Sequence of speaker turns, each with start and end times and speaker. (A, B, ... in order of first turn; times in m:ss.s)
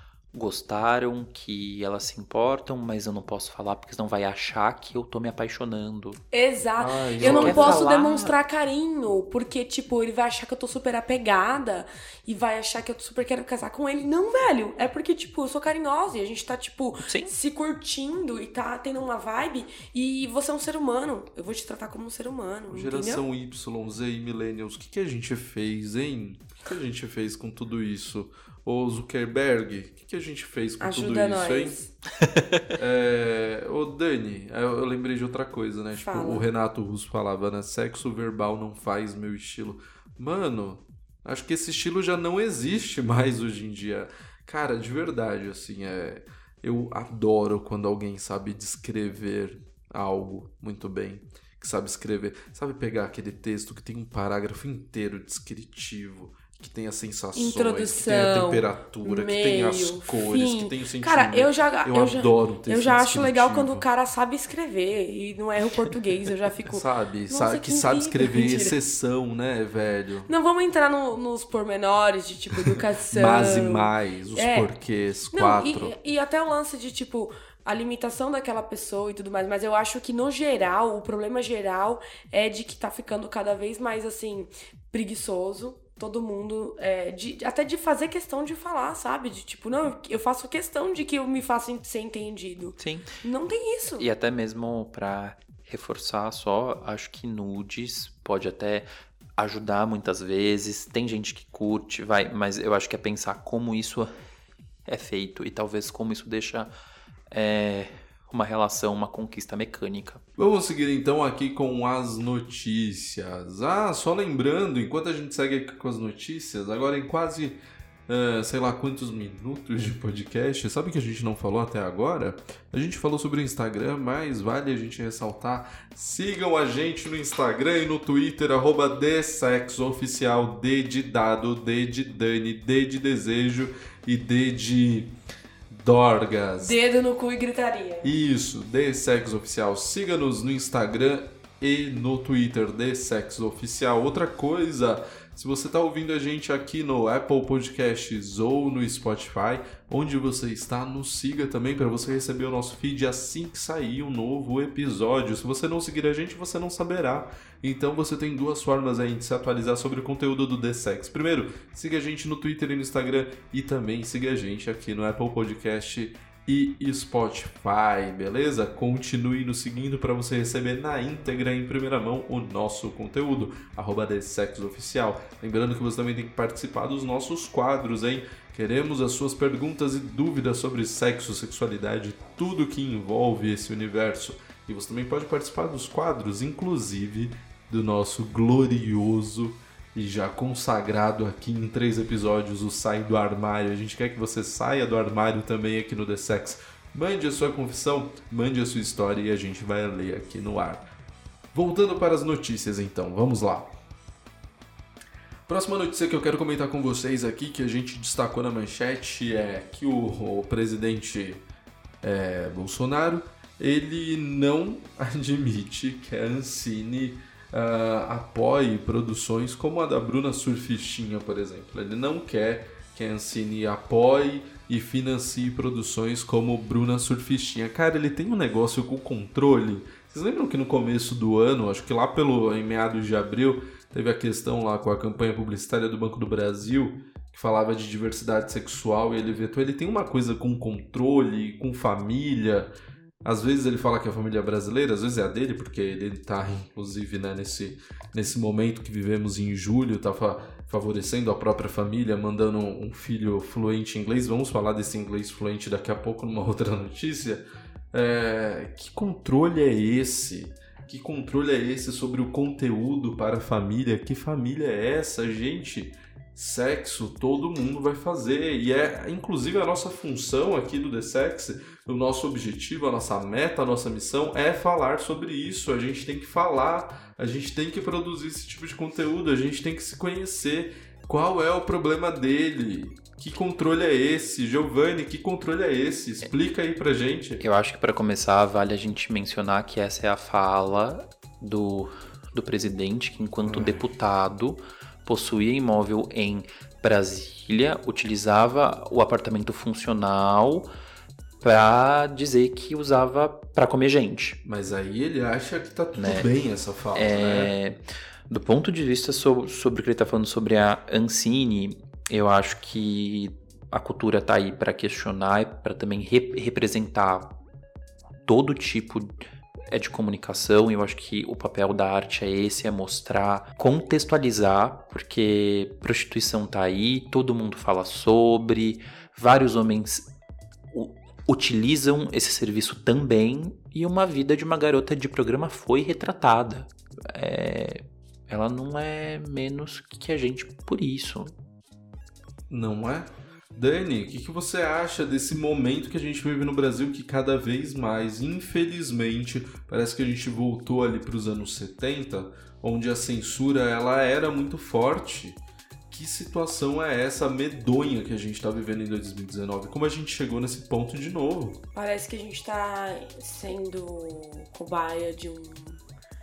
0:00.3-0:06.2 A
0:06.3-0:23.2 B
0:06.8-0:08.3 C
0:07.2-0:08.3 A
0:17.0-0:17.3 A
0:22.7-0:31.8 C
0:30.8-0:31.9 B
0:32.2-0:32.6 A
0:32.8-1:03.8 C
0:36.0-0:36.5 B
0:57.4-1:08.8 B
1:06.6-1:10.3 C
1:10.3-1:14.7 B
1:13.1-1:16.0 C
1:15.3-1:34.1 B
1:32.8-1:33.1 A
1:34.0-1:44.1 A
1:44.9-1:46.7 A
1:47.3-1:50.2 A
1:50.4-2:15.1 C
2:15.7-2:16.8 C
2:16.6-2:18.1 B
2:18.0-3:20.9 C
3:21.5-3:23.7 C
3:25.5-3:31.5 C
3:32.0-4:02.7 C
4:03.2-4:47.4 C
4:47.4-5:00.7 A
4:53.4-4:53.9 C
5:01.4-5:04.4 A
5:04.4-5:07.5 C
5:06.0-5:06.3 A
5:06.9-5:17.4 A
5:18.2-5:19.1 A
5:19.7-5:30.1 A
5:30.7-5:41.3 A
5:42.5-6:01.6 C
6:01.8-6:05.8 B